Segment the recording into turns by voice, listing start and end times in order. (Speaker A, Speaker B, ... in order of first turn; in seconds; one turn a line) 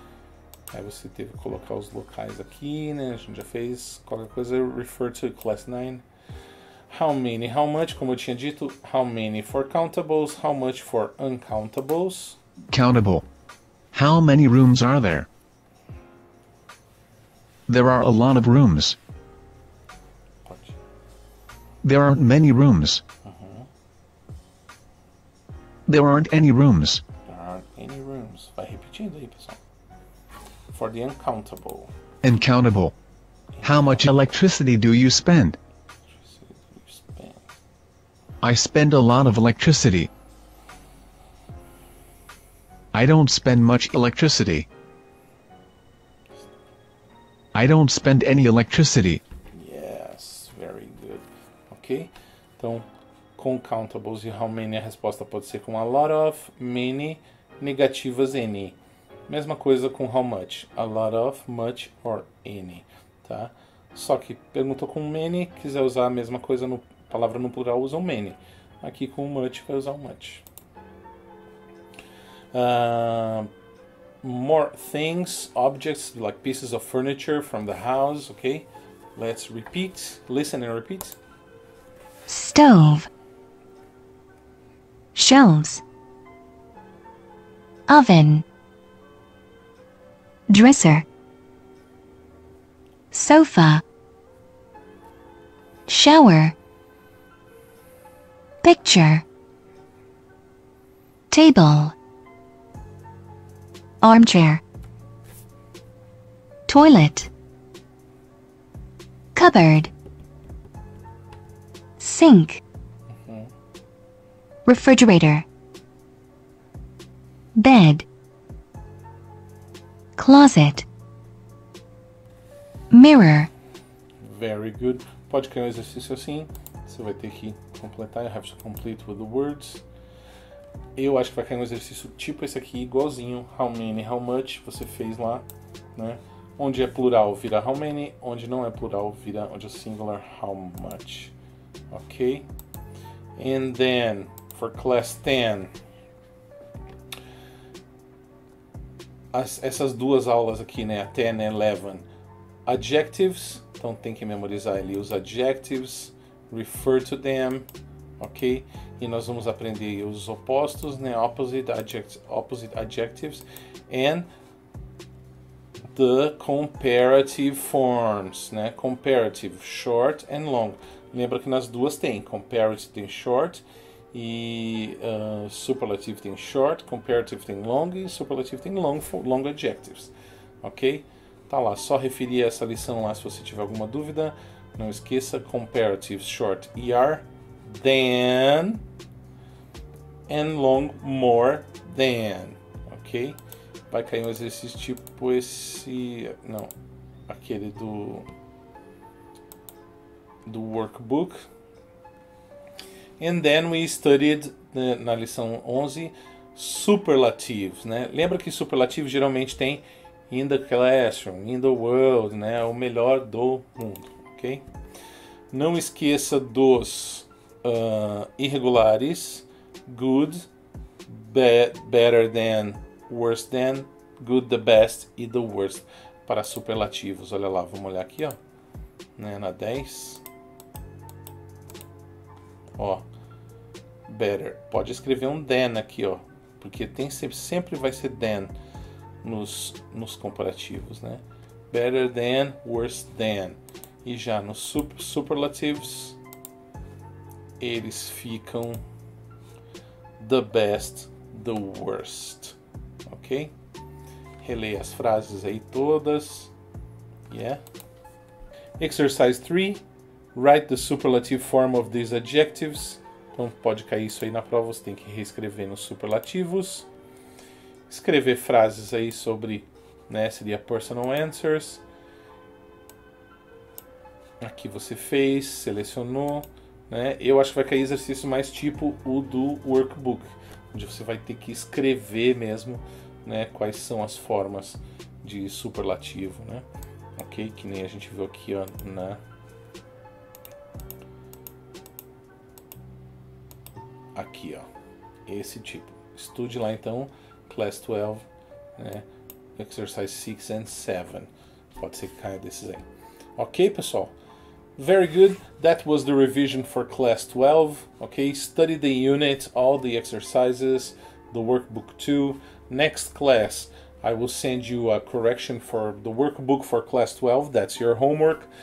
Speaker A: 0.7-6.0
Speaker A: 6.9-12.4
Speaker B: 12.7-13.3
Speaker B: 13.9-15.3
Speaker B: 17.7-19.0
Speaker A: 20.5-20.8
Speaker B: 21.8-23.0
Speaker A: 23.2-23.7
Speaker B: 25.9-27.0
Speaker A: 27.3-29.6
Speaker A: 30.7-31.9
Speaker B: 32.2-33.0
Speaker A: 33.5-34.1
Speaker B: 33.6-35.6
Speaker A: 36.1-37.4
Speaker B: 38.4-40.1
Speaker B: 42.9-44.7
Speaker B: 47.5-49.2
Speaker A: 49.5-52.9
Speaker A: 53.4-58.8
Speaker A: 59.3-70.4
Speaker A: 72.5-73.5
Speaker A: 74.2-81.2
Speaker C: 82.3-83.1
Speaker C: 85.2-85.8
Speaker C: 87.9-88.5
Speaker C: 90.5-91.0
Speaker C: 93.1-93.8
Speaker C: 95.9-96.5
Speaker C: 98.6-99.2
Speaker C: 101.3-102.0
Speaker C: 104.0-104.6
Speaker C: 106.7-107.3
Speaker C: 109.3-109.9
Speaker C: 112.0-112.6
Speaker A: 113.2-113.5
Speaker C: 114.7-115.5
Speaker C: 117.5-118.1
Speaker C: 120.2-120.9
Speaker C: 122.9-123.5
Speaker A: 124.2-129.8
Speaker A: 131.0-141.3
Speaker A: 141.9-142.5
Speaker A: 143.4-145.7
Speaker A: 149.3-152.1
Speaker A: 152.7-157.7
Speaker A: 158.2-164.3
Speaker A: 165.9-188.8
Speaker A: 190.3-193.4
Speaker A: 193.9-196.7
Speaker A: 197.3-198.3
Speaker A: 200.5-201.4
Speaker A: 203.2-214.6
Speaker A: 215.5-220.5
Speaker A: 221.1-228.4
Speaker A: 229.2-230.2
Speaker A: 232.8-233.1
Speaker A: 234.1-238.5
Speaker A: 239.2-246.2
Speaker A: 247.6-248.8
Speaker A: 250.2-253.5
Speaker A: 254.4-256.5
Speaker A: 257.3-257.6
Speaker A: 258.8-259.8
Speaker A: 260.4-266.9
Speaker A: 267.9-271.8
Speaker A: 274.4-286.6
Speaker A: 287.2-289.2
Speaker A: 294.1-294.7
Speaker A: 295.3-298.3
Speaker A: 298.8-299.1
Speaker A: 299.6-302.8
Speaker A: 303.4-304.1
Speaker A: 304.8-318.5